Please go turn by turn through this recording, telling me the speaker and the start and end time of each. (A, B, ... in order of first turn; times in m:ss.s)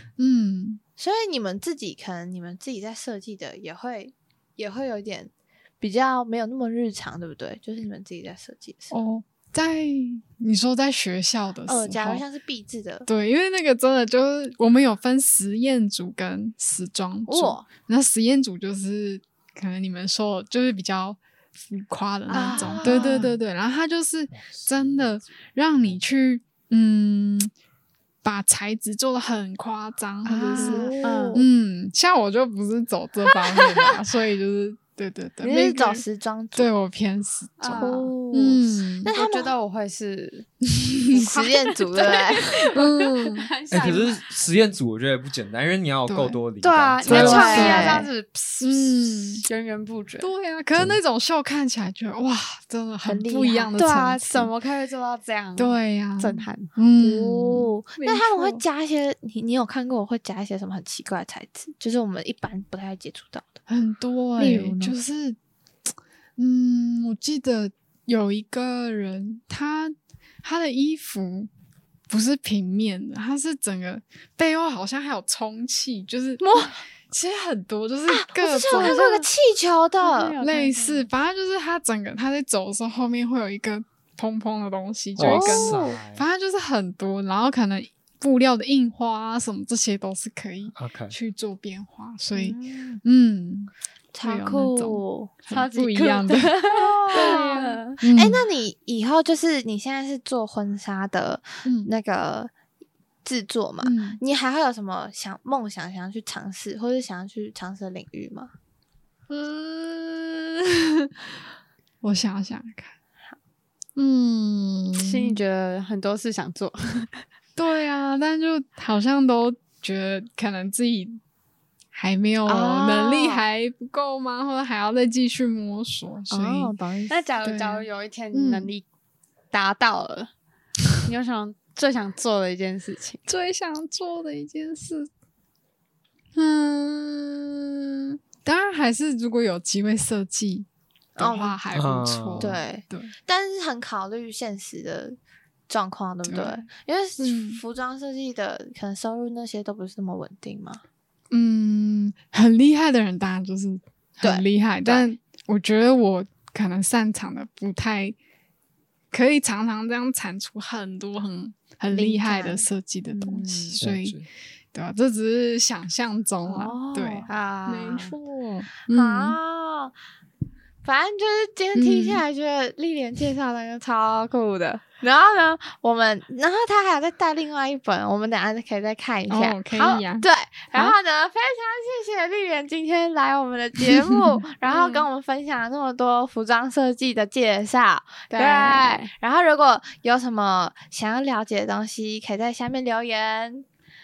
0:00.2-0:00.8 A
0:01.0-0:09.0 B
0:08.9-0:12.2 A
0:11.7-0:13.1 B
0:13.1-0:27.5 A
0:17.3-0:17.7 B
0:22.3-0:23.3 C
0:22.3-0:23.3 B
0:24.3-0:26.0 D
0:28.2-0:36.0 A
0:30.2-0:31.4 C
0:30.5-0:31.5 B
0:35.4-0:36.7 B
0:36.6-0:39.1 A
0:37.6-0:38.1 C
0:37.6-0:39.6 B
0:39.1-0:40.5 C
0:40.7-0:41.3 A
0:41.1-0:44.3 C
0:41.1-0:42.7 B
0:42.8-0:43.5 A
0:43.7-0:47.7 D
0:46.0-0:46.4 A
0:46.6-0:50.3 C
0:47.0-0:48.0 A
0:47.1-0:48.1 B
0:48.6-0:49.5 A
0:50.2-0:54.5 A
0:53.0-0:53.8 B
0:53.8-0:56.7 C
0:55.6-0:58.6 A
0:57.0-1:03.6 B
1:03.7-1:05.4 A
1:04.4-1:04.9 B
1:06.4-1:11.5 A
1:12.1-1:19.2 A
1:18.1-1:20.4 B
1:18.7-1:19.2 C
1:20.0-1:21.1 C
1:20.4-1:33.7 A
1:25.2-1:26.3 D
1:25.2-1:26.0 B
1:30.8-1:31.2 D
1:32.3-1:33.0 B
1:34.1-1:35.3 B
1:34.2-1:38.4 A
1:35.5-1:38.0 C
1:36.7-1:42.5 B
1:41.6-1:41.9 A
1:43.2-1:48.5 B
1:43.8-1:44.2 A
1:49.3-1:51.1 A
1:52.0-1:52.9 A
1:54.0-1:55.4 A
1:55.0-1:57.2 C
1:57.6-2:01.2 A
2:01.9-2:06.8 A
2:02.4-2:03.4 B
2:06.3-2:07.3 B
2:07.1-2:08.8 C
2:07.4-2:08.7 A
2:09.5-2:10.3 C
2:11.0-2:13.2 C
2:13.3-2:15.1 A
2:16.4-2:23.1 A
2:21.2-2:21.6 B
2:21.7-2:22.6 D
2:22.4-2:25.2 B
2:25.7-2:30.8 B
2:26.2-2:26.6 A
2:27.2-2:27.6 A
2:31.3-2:38.2 A
2:34.2-2:35.2 B
2:39.1-2:49.4 A
2:41.9-2:43.8 B
2:43.8-2:44.3 D
2:46.4-2:47.3 B
2:47.3-2:48.2 C
2:48.9-2:49.9 B
2:50.8-3:13.7 B
2:51.7-2:52.2 A
2:59.3-3:00.3 A
3:04.6-3:05.1 C
3:08.3-3:09.1 C